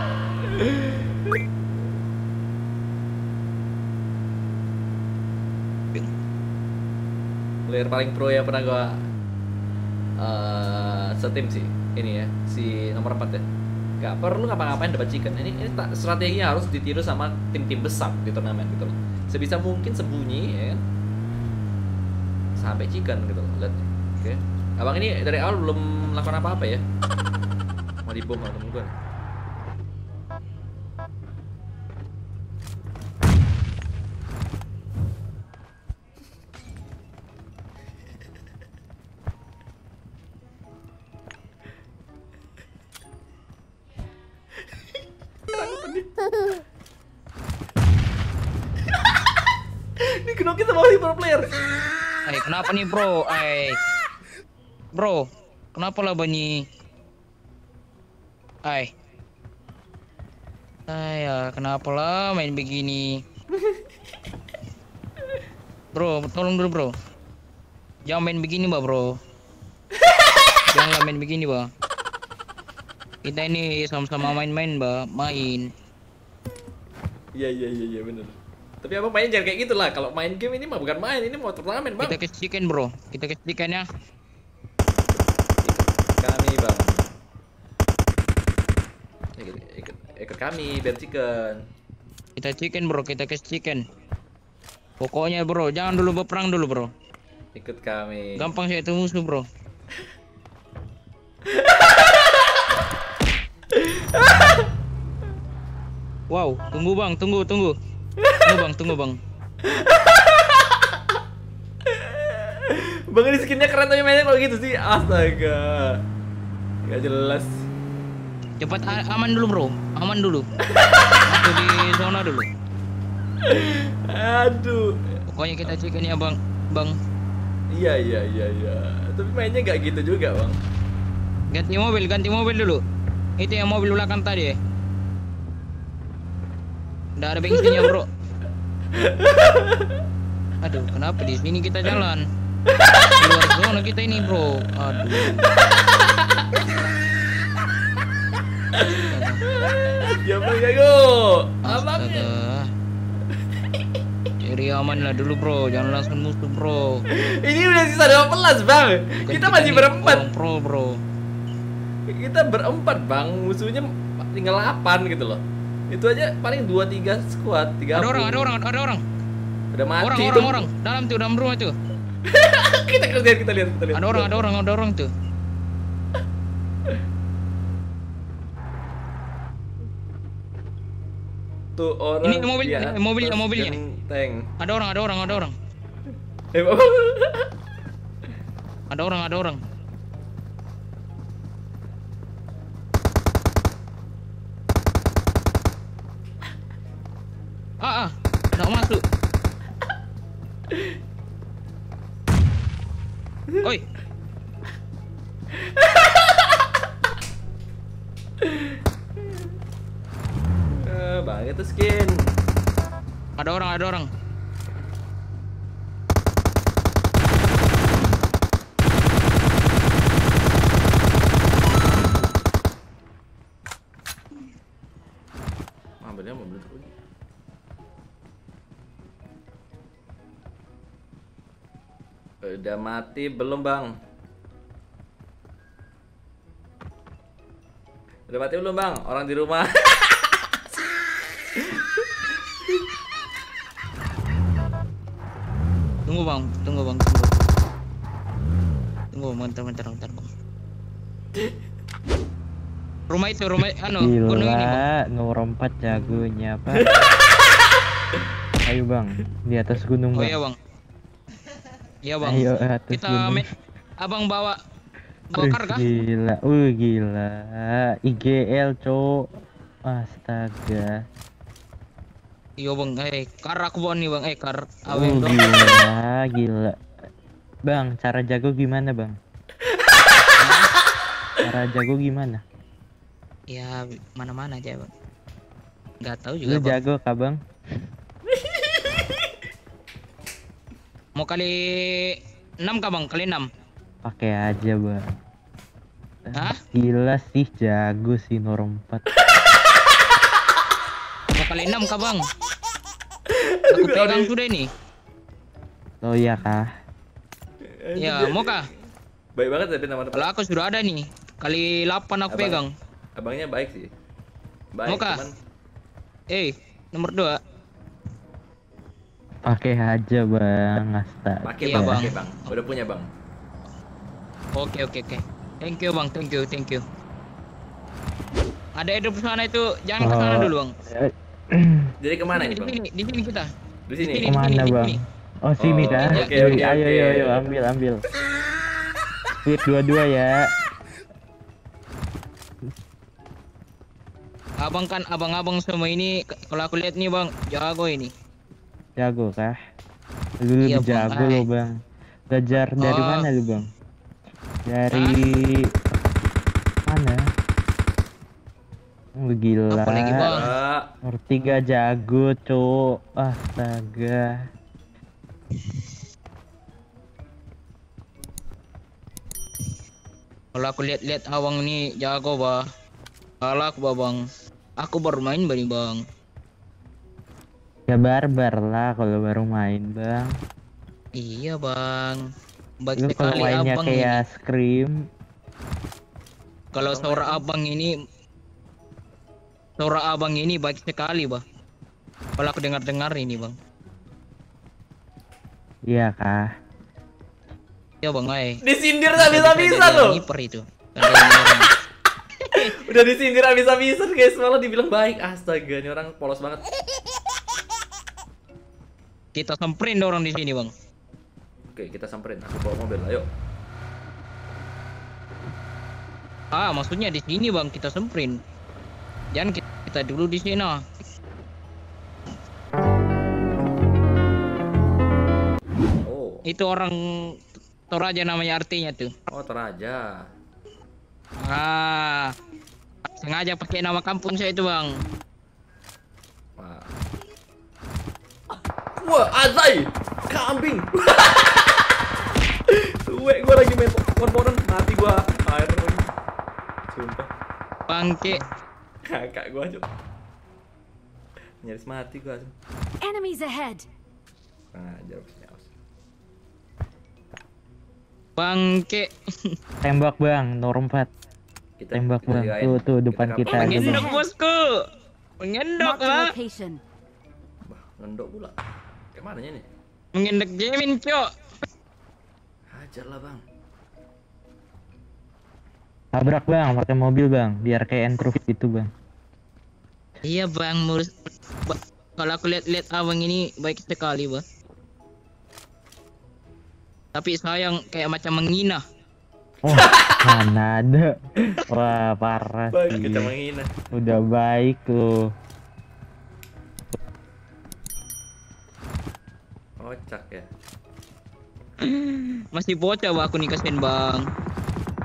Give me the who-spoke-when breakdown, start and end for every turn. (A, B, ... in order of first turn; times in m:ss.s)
0:00.4-0:01.4 A
0:07.7-0:09.0 A
0:10.2-0:13.4 A
0:14.0-0:20.8 A
0:22.6-0:26.8 A
0:28.0-0:28.9 A
0:45.5-0:46.1 A
0:50.0-0:51.5 A
0:52.3-0:53.8 B
0:54.9-0:56.6 B
0:58.6-0:58.9 B
1:00.9-1:03.2 B
1:05.9-1:06.9 B
1:08.1-1:09.1 B
1:10.7-1:11.7 B
1:13.2-1:15.7 B
1:17.3-1:22.2 A
1:22.0-1:23.8 B
1:25.0-1:27.1 A
1:29.4-1:31.6 A
1:32.4-1:33.8 B
1:35.0-1:36.9 B
1:37.5-1:38.5 A
1:38.4-1:39.4 B
1:41.5-1:42.6 A
1:43.7-1:44.7 A
1:46.3-1:47.7 B
1:48.2-1:48.6 A
1:48.4-1:49.2 B
1:49.6-1:51.0 A
1:51.8-1:56.0 A
1:56.8-1:57.6 A
1:58.6-2:00.4 B
2:00.7-2:01.2 A
2:01.3-2:02.5 B
2:03.4-2:05.7 A
2:05.3-2:06.9 B
2:07.7-2:10.6 A
2:11.5-2:12.8 B
2:13.4-2:14.6 B
2:17.2-2:18.1 B
2:17.6-2:17.9 A
2:18.9-2:20.0 A
2:20.6-2:22.2 B
2:22.7-2:23.1 A
2:23.2-2:25.5 B
2:25.6-2:26.4 A
2:28.7-2:32.3 A
2:29.1-2:29.4 B
2:31.6-2:32.7 B
2:34.4-2:37.0 B
2:37.1-2:40.2 A
2:39.2-2:41.0 B
2:42.1-2:48.6 A
2:47.9-2:49.0 B
2:49.7-2:50.7 A
2:50.0-2:51.7 B
2:52.2-2:54.5 A
2:53.9-2:55.1 B
3:01.8-3:04.5 A
3:02.2-3:03.8 B
3:04.6-3:05.5 B
3:06.5-3:07.5 A
3:08.9-3:09.6 B
3:17.8-3:19.0 B
3:25.5-3:26.7 A
3:28.4-3:29.5 A
3:30.8-3:32.3 A
3:33.4-3:34.1 B
3:46.0-3:46.9 A
3:52.4-3:53.9 A
3:58.3-4:00.6 A
4:01.6-4:02.1 A
4:06.1-4:07.5 B
4:09.1-4:10.3 B
4:13.1-4:14.8 B
4:14.0-4:16.9 C
4:15.9-4:17.1 A
4:18.6-4:20.4 C
4:20.1-4:20.6 B
4:22.0-4:23.4 B
4:22.2-4:23.4 C
4:24.0-4:24.6 B
4:25.3-4:25.9 B
4:25.3-4:29.2 C
4:29.9-4:31.0 C
4:32.6-4:35.8 B
4:34.9-4:36.8 C
4:37.6-4:39.2 C
4:40.4-4:40.7 B
4:41.4-4:42.4 C
4:43.5-4:44.9 B
4:46.0-4:46.8 B
4:46.4-4:47.4 C
4:48.3-4:48.7 A
4:51.2-4:53.5 B
4:54.0-4:55.0 C
4:56.2-4:59.0 C
5:01.4-5:02.2 B
5:03.3-5:04.3 A
5:03.7-5:04.7 B
5:06.0-5:06.7 C
5:07.6-5:08.8 A
5:08.0-5:08.7 B
5:09.4-5:10.3 A
5:10.1-5:12.7 B
5:12.3-5:12.6 A
5:13.2-5:13.9 A
5:14.7-5:15.3 A
5:14.9-5:15.2 B
5:16.3-5:17.4 B
5:19.4-5:22.1 C
5:21.4-5:23.1 A
5:21.6-5:22.1 B
5:24.6-5:26.8 B
5:28.8-5:30.7 B
5:30.0-5:31.9 C
5:32.0-5:32.8 A
5:32.3-5:33.5 B
5:33.9-5:34.4 A
5:34.0-5:35.0 B
5:34.2-5:38.0 C
5:35.6-5:37.4 A
5:35.9-5:36.6 B
5:39.3-5:40.4 C
5:44.6-5:48.1 B
5:49.0-5:49.6 C
5:50.4-5:51.7 C
5:50.6-5:51.4 B
5:52.3-5:53.6 C
5:52.8-5:53.3 B
5:54.6-5:55.7 C
5:54.9-5:55.2 B
5:56.8-5:57.2 C
5:59.2-6:00.4 C
5:59.7-6:00.5 B
6:00.2-6:00.8 A
6:01.0-6:04.3 C
6:10.5-6:12.6 B
6:13.4-6:14.2 B
6:14.8-6:16.0 B
6:17.9-6:20.3 C
6:21.2-6:22.2 B
6:22.8-6:24.2 B
6:23.0-6:25.0 C
6:26.7-6:27.9 B
6:26.8-6:27.4 A
6:29.8-6:31.4 B
6:32.4-6:33.5 B
6:35.9-6:36.5 C
6:38.0-6:38.6 B
6:38.6-6:40.2 A
6:39.2-6:41.7 B
6:41.1-6:41.5 A
6:42.5-6:42.8 B
6:42.5-6:46.6 A
6:49.4-6:50.7 B
6:51.7-6:53.3 A
6:56.5-6:58.4 B
6:59.3-7:00.8 B
7:06.0-7:06.4 A
7:06.5-7:07.4 B
7:07.9-7:09.1 B
7:09.3-7:10.1 A
7:11.4-7:12.3 B
7:13.2-7:14.9 B
7:16.6-7:16.9 A
7:19.0-7:22.0 A
7:22.7-7:26.0 A
7:26.9-7:27.3 A
7:27.9-7:28.4 B
7:29.0-7:29.8 A
7:31.6-7:32.5 A
7:33.0-7:33.8 D
7:34.7-7:35.7 A
7:38.4-7:39.1 B
7:39.8-7:41.1 C
7:41.8-7:44.0 A
7:41.9-7:44.0 C
7:43.5-7:44.9 B
7:43.8-7:44.2 D
7:45.4-7:46.3 B
7:45.8-7:46.8 D
7:47.7-7:48.5 A
7:49.1-7:49.6 A
7:50.1-7:51.3 B
7:52.7-7:53.4 A
7:56.1-7:58.9 C
8:00.2-8:04.4 B
8:07.1-8:08.8 B
8:09.6-8:13.3 C
8:09.7-8:10.4 A
8:12.7-8:13.7 A
8:13.9-8:15.1 C
8:19.8-8:20.5 A
8:21.8-8:24.2 B